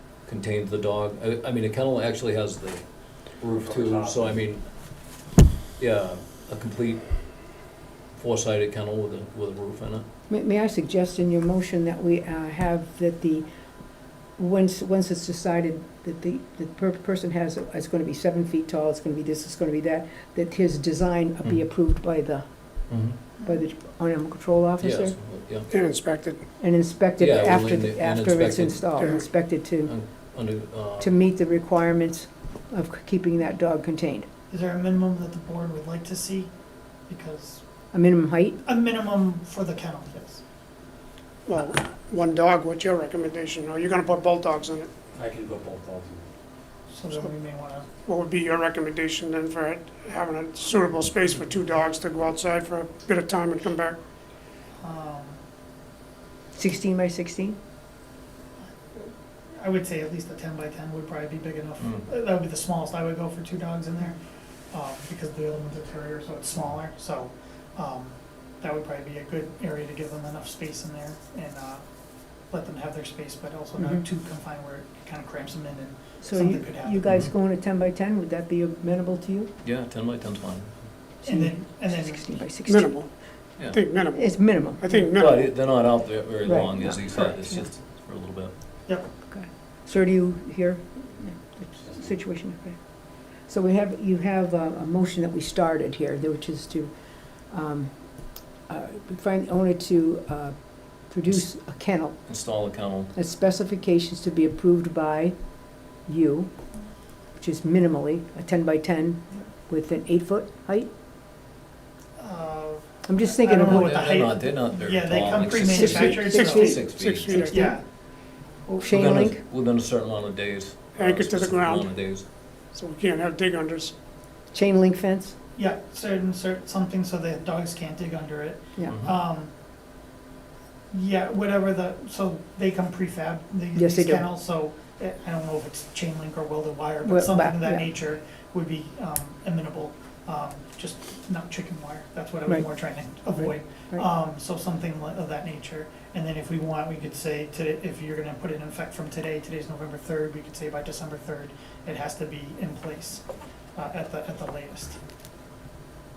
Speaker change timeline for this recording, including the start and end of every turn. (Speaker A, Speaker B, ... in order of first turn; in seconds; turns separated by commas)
Speaker A: 0.2-4.7, Speaker B: 3.5-4.4, Speaker A: 5.8-7.5, Speaker A: 8.1-10.1, Speaker C: 10.3-25.2, Speaker A: 22.9-23.2, Speaker A: 24.8-25.7, Speaker D: 25.7-26.4, Speaker C: 26.6-29.9, Speaker A: 27.2-31.2, Speaker C: 31.0-34.3, Speaker E: 34.5-36.5, Speaker E: 37.1-37.6, Speaker C: 37.9-38.6, Speaker E: 38.6-40.4, Speaker D: 41.5-44.9, Speaker B: 45.1-46.3, Speaker E: 46.9-47.9, Speaker D: 48.0-54.0, Speaker E: 54.8-55.4, Speaker C: 56.5-57.6, Speaker E: 58.6-71.8, Speaker E: 72.5-77.0, Speaker C: 73.8-74.0, Speaker C: 76.2-79.5, Speaker A: 79.6-80.8, Speaker E: 81.2-82.3, Speaker C: 81.2-83.0, Speaker D: 82.7-85.5, Speaker C: 84.1-85.1, Speaker A: 85.1-88.5, Speaker C: 86.4-87.6, Speaker C: 89.3-96.9, Speaker C: 97.5-97.9, Speaker C: 98.7-102.3, Speaker A: 102.3-103.1, Speaker C: 103.1-105.3, Speaker C: 105.9-106.5, Speaker C: 107.3-110.9, Speaker E: 112.2-116.8, Speaker C: 113.1-114.3, Speaker A: 113.6-117.5, Speaker C: 115.6-117.8, Speaker D: 116.3-117.6, Speaker E: 117.5-117.9, Speaker E: 118.6-119.0, Speaker C: 118.8-119.4, Speaker A: 118.8-122.2, Speaker D: 121.0-122.1, Speaker D: 122.7-123.9, Speaker C: 124.5-125.3, Speaker E: 125.6-129.5, Speaker C: 128.8-129.1, Speaker E: 130.9-155.0, Speaker C: 133.7-134.3, Speaker C: 137.0-137.9, Speaker C: 142.5-144.1